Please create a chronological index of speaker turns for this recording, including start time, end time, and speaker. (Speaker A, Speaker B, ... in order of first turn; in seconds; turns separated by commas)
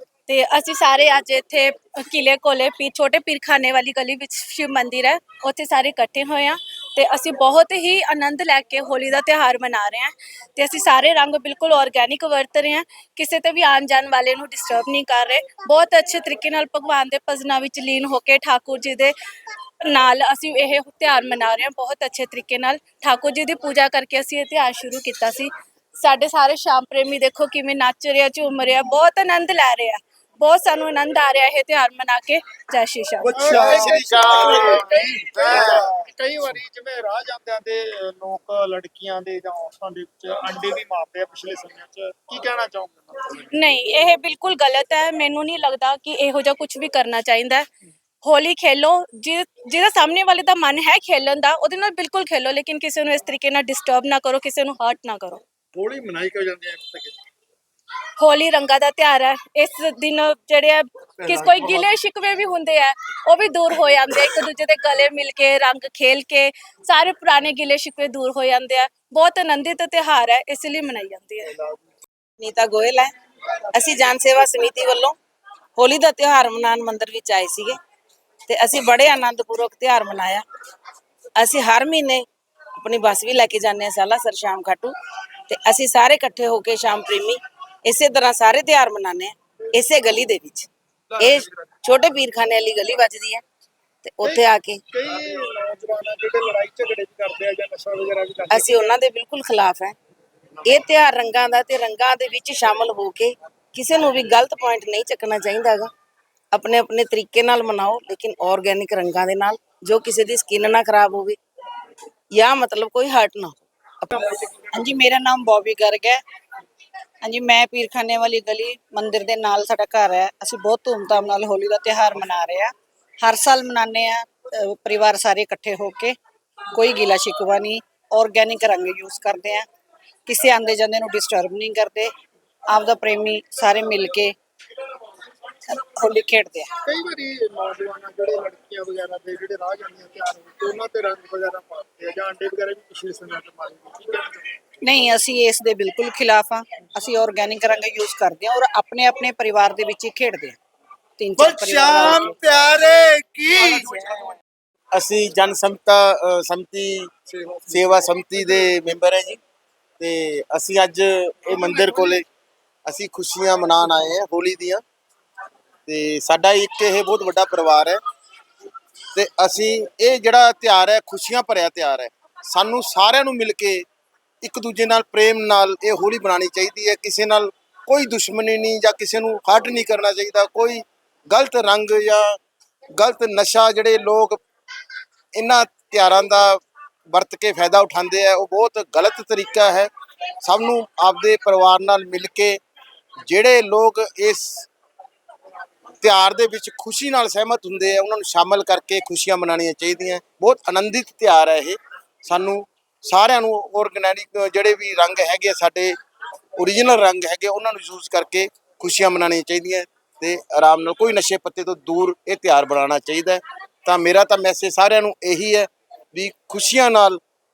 Speaker A: 0.3-19.1, Speaker A: 19.9-25.5, Speaker A: 26.0-33.3, Speaker B: 33.2-36.0, Speaker C: 33.3-43.1, Speaker A: 43.4-47.7, Speaker A: 48.2-55.4, Speaker C: 55.8-57.1, Speaker A: 58.2-71.5, Speaker C: 61.3-61.9, Speaker D: 72.4-73.1, Speaker D: 73.7-75.2, Speaker D: 75.8-77.8, Speaker D: 78.5-80.4, Speaker D: 81.4-82.3, Speaker D: 82.8-85.0, Speaker D: 85.5-93.4, Speaker D: 94.0-94.8, Speaker C: 94.2-99.0, Speaker D: 98.5-100.0, Speaker D: 100.7-105.9, Speaker D: 106.5-111.4, Speaker D: 112.3-114.1, Speaker E: 114.1-116.2, Speaker E: 117.2-126.2, Speaker E: 126.7-129.7, Speaker E: 130.3-132.1, Speaker E: 132.7-134.3, Speaker E: 135.7-136.7, Speaker C: 136.9-144.4, Speaker E: 144.8-150.6, Speaker E: 151.2-152.4, Speaker B: 151.4-154.0, Speaker C: 152.1-153.0, Speaker B: 154.9-157.1, Speaker C: 157.3-158.5, Speaker B: 157.7-159.4, Speaker B: 160.0-162.2, Speaker C: 161.5-162.2, Speaker B: 162.9-164.8, Speaker B: 165.9-168.0, Speaker B: 169.1-173.9, Speaker B: 174.4-182.4, Speaker B: 183.0-184.4, Speaker B: 185.3-189.9, Speaker B: 190.4-192.6, Speaker B: 193.3-194.7, Speaker B: 196.0-205.9, Speaker B: 206.6-217.2